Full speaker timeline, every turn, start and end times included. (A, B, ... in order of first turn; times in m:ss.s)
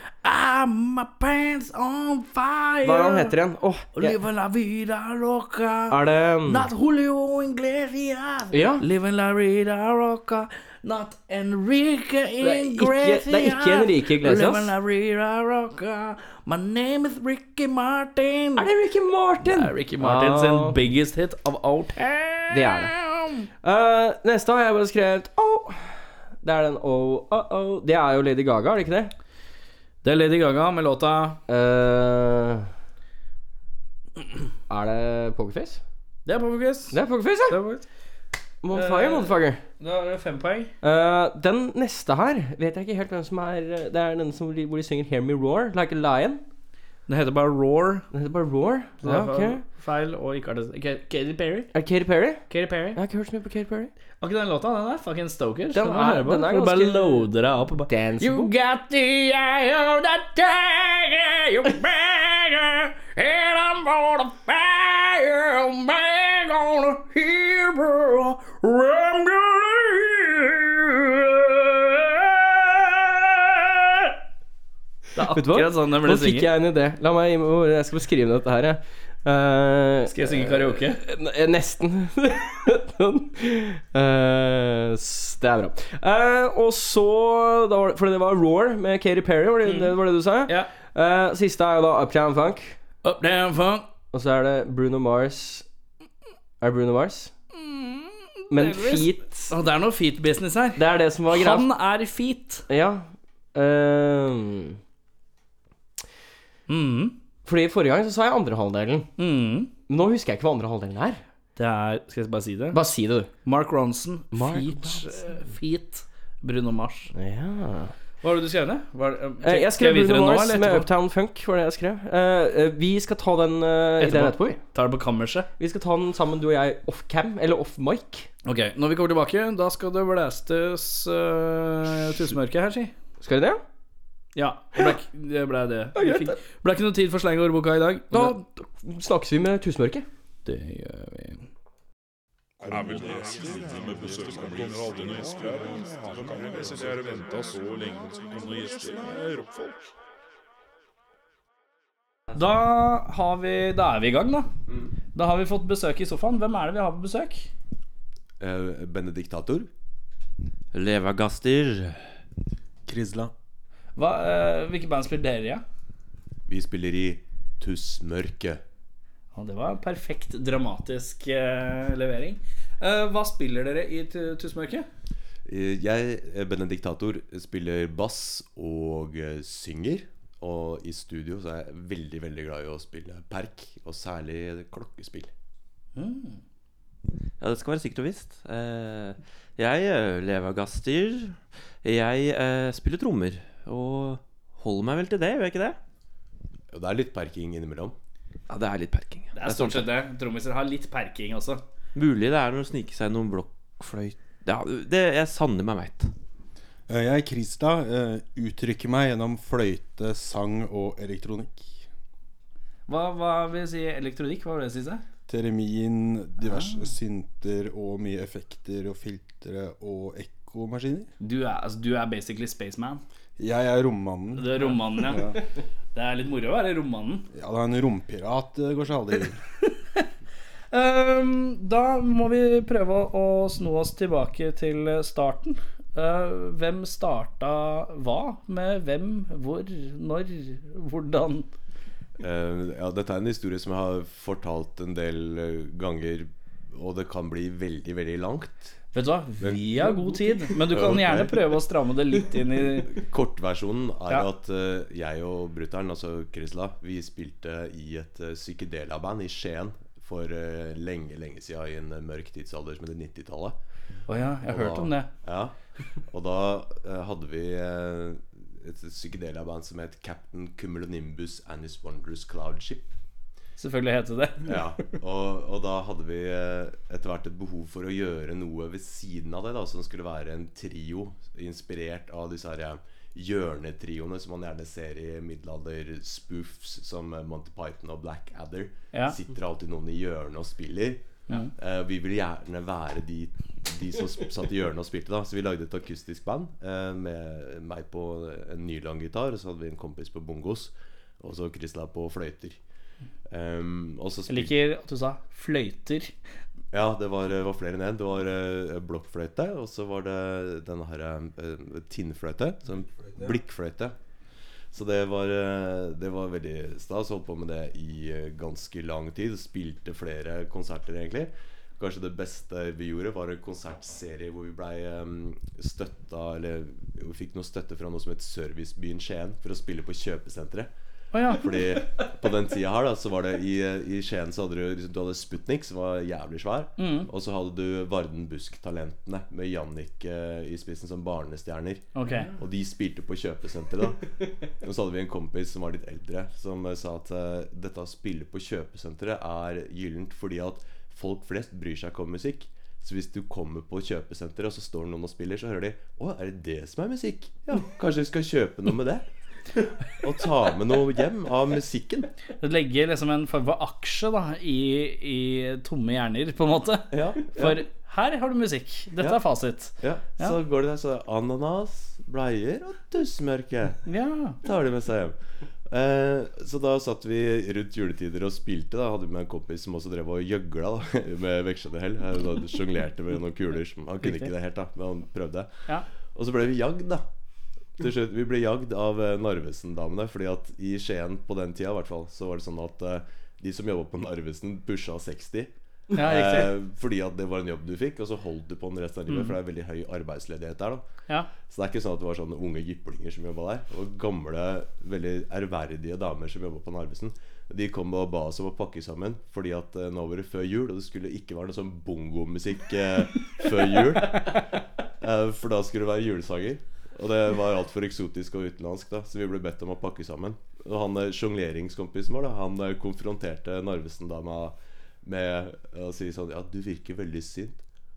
0:00.2-0:03.3 A
0:02.8-0:04.2 B
0:03.9-0:18.7 A
0:05.9-0:06.7 B
0:08.5-0:08.8 B
0:12.4-0:14.7 B
0:18.6-0:20.8 B
0:19.4-0:23.4 A
0:22.5-0:23.0 B
0:23.6-0:29.1 B
0:30.0-0:31.4 A
0:31.5-0:32.7 B
0:34.7-0:35.8 B
0:36.2-0:37.8 A
0:36.9-0:37.7 B
0:38.6-0:39.6 B
0:38.7-0:40.7 A
0:40.8-0:46.4 B
0:47.1-0:48.1 A
0:48.1-0:49.6 B
0:49.0-0:51.8 A
0:51.7-0:53.9 B
0:52.5-0:53.0 A
0:54.2-1:14.1 A
0:55.7-0:58.5 B
1:15.1-1:16.5 A
1:15.3-1:32.8 B
1:20.1-1:21.0 A
1:29.6-1:30.7 A
1:33.0-1:33.9 A
1:34.1-1:35.7 B
1:36.6-1:37.3 B
1:37.5-1:42.6 A
1:38.5-1:39.5 B
1:40.8-1:41.7 B
1:42.7-1:44.8 B
1:46.7-1:47.2 A
1:47.4-1:49.1 B
1:49.2-1:49.7 A
1:49.9-1:51.2 B
1:51.6-1:52.8 A
1:52.7-1:53.3 B
1:53.4-1:57.1 A
1:54.3-1:55.4 B
1:57.1-1:57.9 B
1:58.2-2:00.9 A
1:59.4-2:04.6 B
2:04.0-2:05.5 A
2:05.6-2:08.3 B
2:08.4-2:12.9 A
2:13.2-2:13.6 B
2:14.3-2:18.4 A
2:15.9-2:16.4 B
2:18.1-2:20.1 B
2:20.4-2:21.5 A
2:22.6-2:27.5 C
2:28.3-2:29.2 C
2:32.3-2:34.5 A
2:34.6-2:34.9 D
2:35.1-2:37.5 A
2:38.4-2:39.7 D
2:40.7-2:42.2 E
2:42.8-2:43.3 F
2:44.0-2:45.6 A
2:46.5-2:48.6 D
2:49.3-2:54.9 A
2:55.4-3:05.3 D
3:06.0-3:06.4 A
3:07.4-3:15.8 E
3:16.7-3:17.9 D
3:18.5-3:19.8 E
3:19.3-3:21.6 A
3:21.9-3:26.1 E
3:26.9-3:31.8 F
3:32.9-3:35.0 A
3:35.3-3:41.1 F
3:36.5-3:36.8 A
3:41.2-3:43.0 A
3:43.4-3:45.4 F
3:44.4-3:45.2 A
3:45.9-3:47.2 A
3:47.3-3:49.4 F
3:50.7-4:01.5 A
4:02.2-4:08.8 D
4:08.9-4:12.9 A
4:09.4-4:09.8 D
4:10.5-4:11.6 D
4:12.8-4:23.6 D
4:24.1-4:25.1 A
4:24.4-4:32.9 D
4:33.6-4:34.7 A
4:34.4-5:02.6 D
5:03.3-5:04.5 D
5:04.3-5:06.1 A
5:06.7-5:13.9 D
5:12.8-5:13.4 F
5:14.7-5:30.7 D
5:31.1-5:31.5 A
5:31.3-5:59.1 D
5:36.8-5:37.1 A
5:41.9-5:42.3 A
5:59.8-6:02.1 D
6:02.4-6:10.4 A
6:06.9-6:07.6 D
6:09.7-6:13.8 D
6:13.8-6:14.4 A
6:14.4-6:27.1 D
6:24.0-6:24.3 A
6:27.8-6:40.8 D
6:35.9-6:36.5 A
6:39.1-6:39.3 A
6:41.4-7:07.6 D